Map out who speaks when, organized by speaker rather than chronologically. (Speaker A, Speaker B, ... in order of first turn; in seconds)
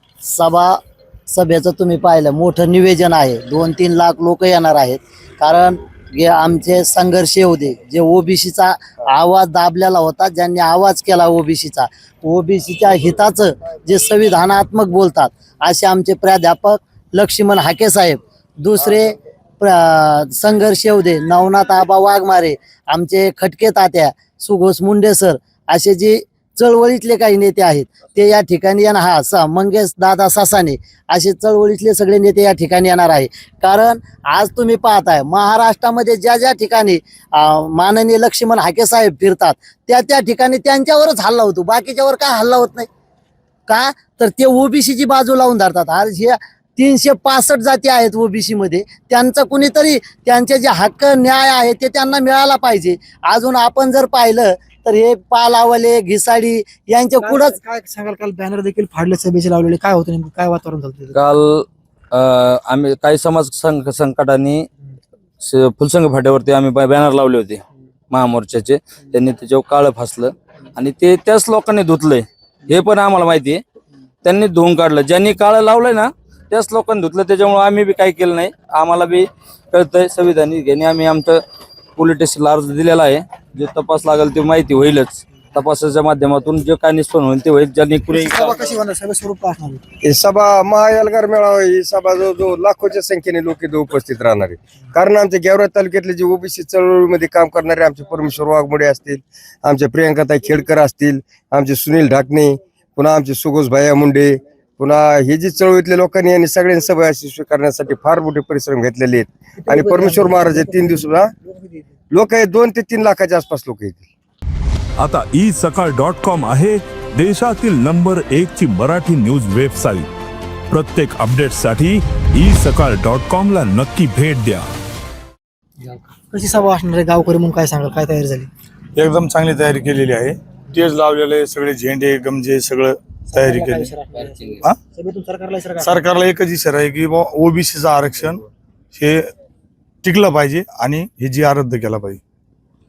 Speaker A: 0.2-0.8, 1.3-42.9, 43.7-57.6
Speaker B: 57.2-61.1, 88.1-89.8, 109.6-111.9, 125.8-128.5, 133.3-136.0
Speaker C: 61.1-64.7, 65.4-73.6, 74.2-81.4, 82.0-88.7
Speaker D: 90.0-111.3, 112.1-114.1
Speaker E: 115.0-120.1, 120.7-124.7
Speaker F: 128.9-133.9, 135.8-139.3, 140.0-142.2